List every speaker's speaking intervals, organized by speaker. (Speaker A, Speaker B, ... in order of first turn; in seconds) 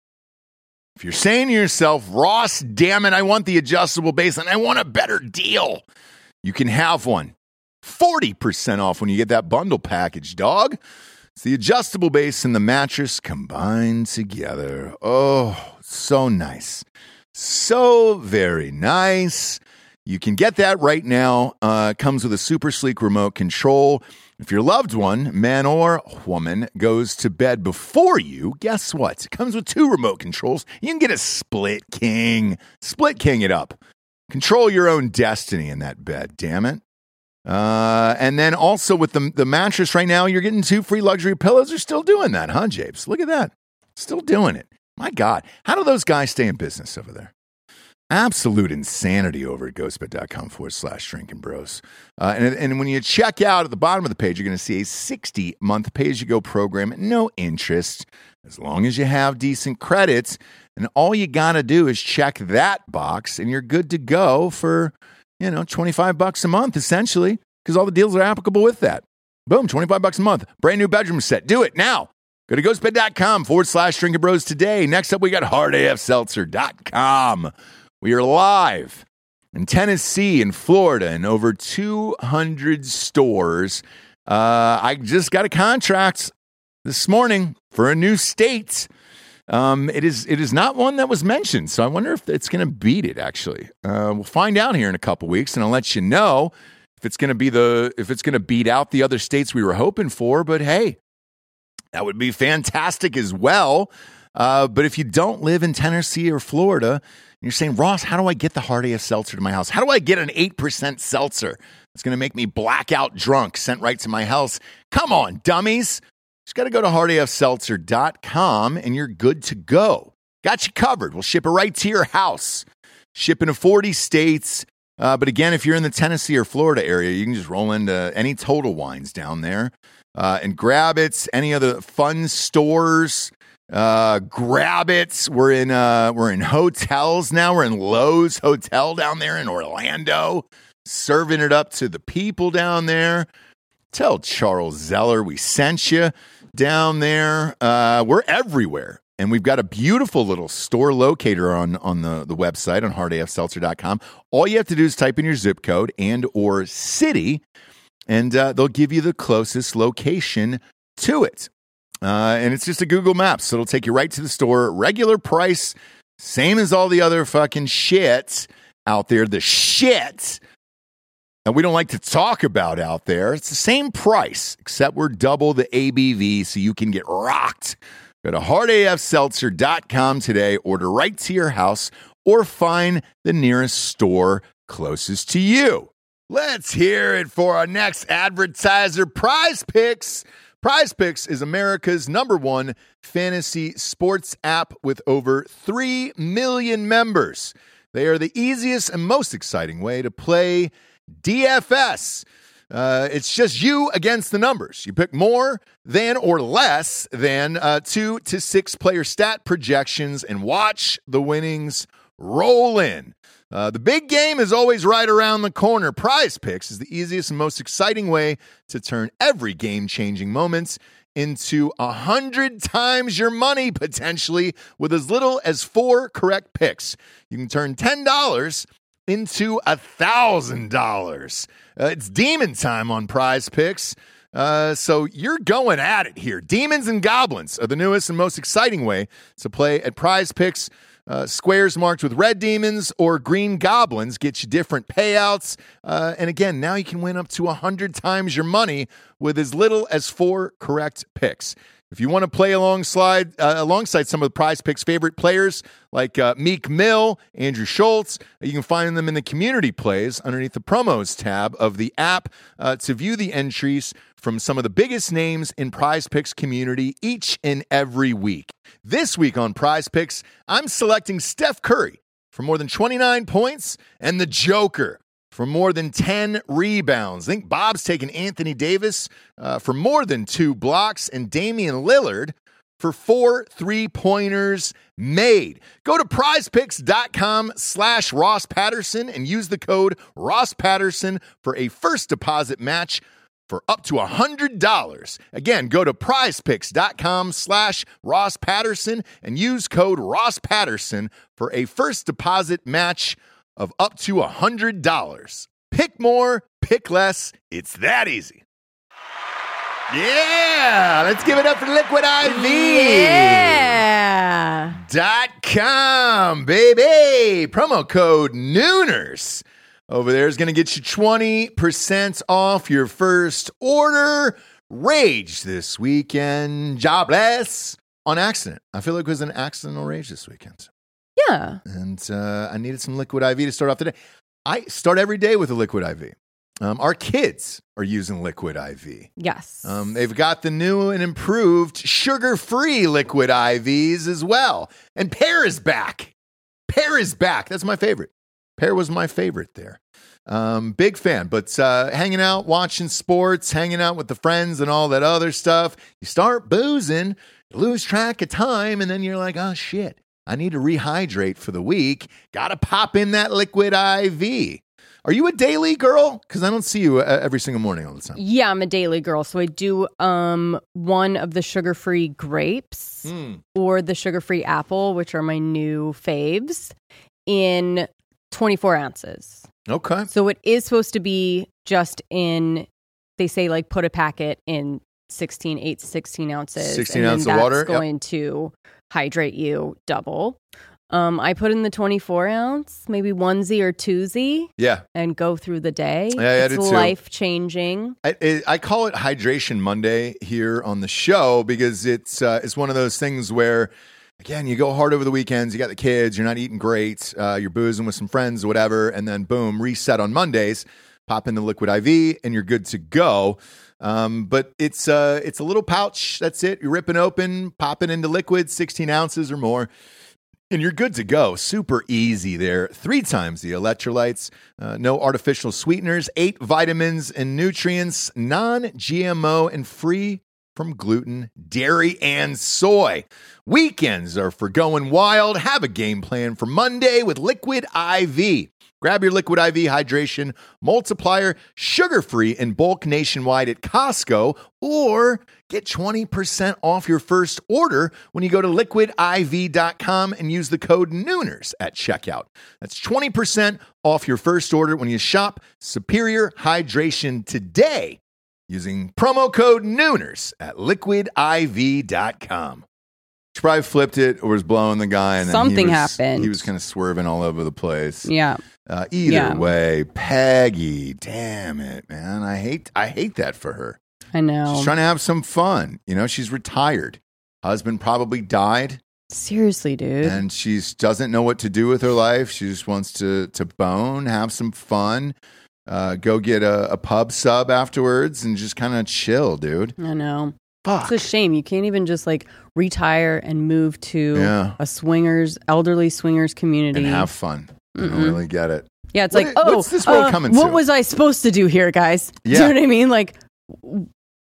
Speaker A: 1.0-5.8, 6.4-10.8, 11.3-33.8, 34.3-36.8, 37.5-47.3, 48.1-79.0, 79.5-86.3, 86.8-88.9, 89.5-101.0, 101.9-143.3, 143.9-157.4, 158.1-161.5, 162.0-170.4, 171.4-308.4, 309.9-313.8, 314.8-330.7, 331.6-333.9, 334.4-339.1, 339.6-346.1, 346.7-368.2, 373.0-373.4, 379.7-380.1, 386.6-387.8, 394.6-394.8, 396.1-396.9, 398.0-419.7, 420.5-462.6, 463.3-468.1, 468.7-473.8, 474.5-478.8, 480.0-485.1, 485.6-489.7, 490.6-491.1, 494.1-494.6, 496.7-500.6, 502.2-502.6
Speaker B: 312.2-314.8, 331.2-331.6, 339.2-339.9, 368.1-376.7, 377.3-379.4, 380.1-382.7, 383.2-390.4, 390.9-397.9, 465.2-466.5, 468.0-468.4, 469.1-469.5, 474.1-474.7, 479.1-480.2, 489.8-497.1, 497.7-498.2, 498.9-503.9